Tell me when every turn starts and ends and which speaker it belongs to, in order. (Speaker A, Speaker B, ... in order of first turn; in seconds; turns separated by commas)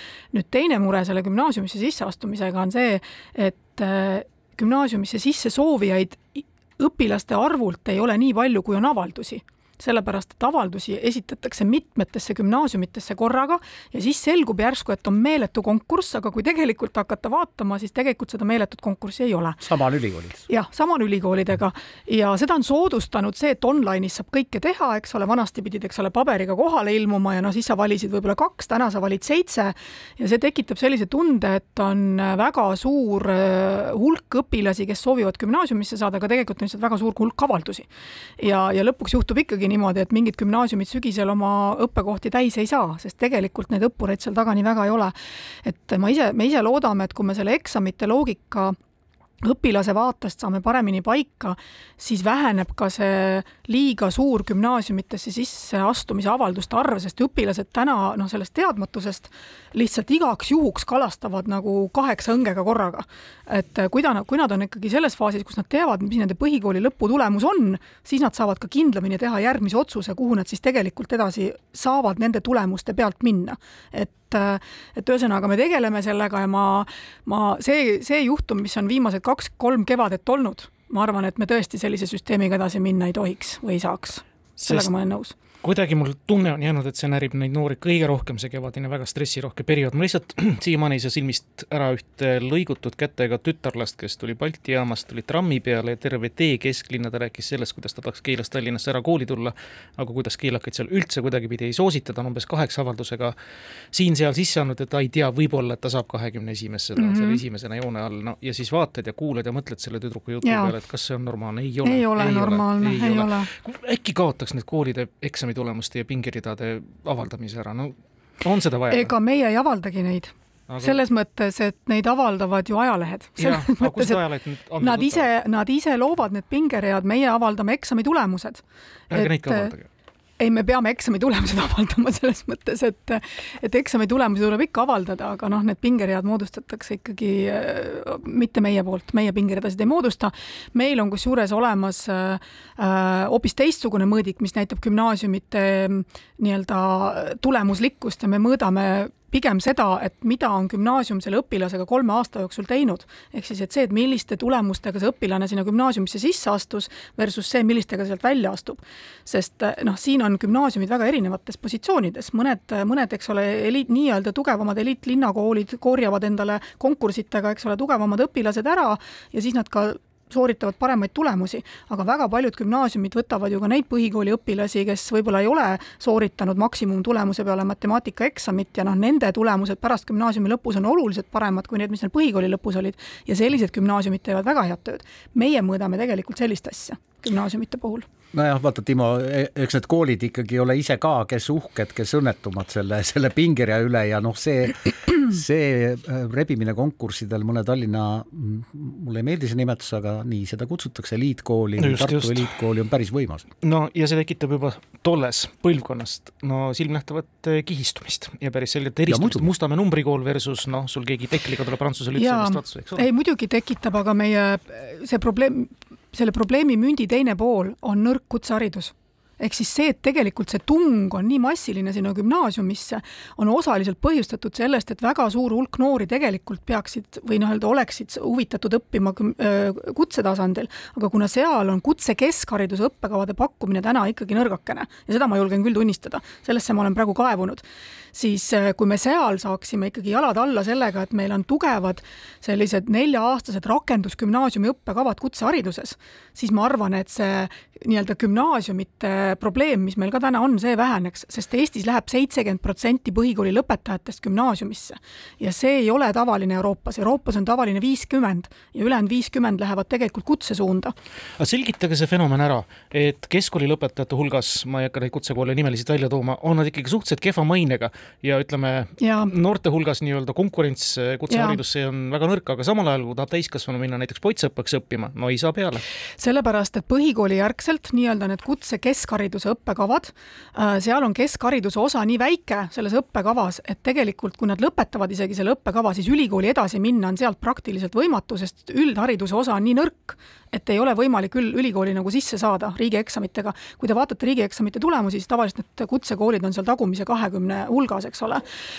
Speaker A: 0.3-19.6, Speaker B: 19.6-20.5, Speaker A: 20.5-48.8, Speaker A: 49.4-85.3, Speaker C: 84.6-84.9, Speaker C: 85.6-103.3, Speaker C: 103.9-119.1, Speaker A: 107.0-107.4, Speaker A: 110.4-110.7, Speaker A: 111.8-113.5, Speaker A: 118.9-124.2, Speaker C: 120.7-121.0, Speaker C: 123.4-125.3, Speaker A: 124.8-129.7, Speaker C: 129.1-129.9, Speaker A: 130.4-188.1, Speaker B: 188.3-203.5, Speaker C: 201.8-202.4, Speaker C: 203.6-213.1, Speaker B: 209.1-209.5, Speaker A: 212.1-260.9, Speaker C: 261.4-275.8, Speaker A: 269.0-269.3, Speaker A: 271.3-271.6, Speaker A: 276.2-298.4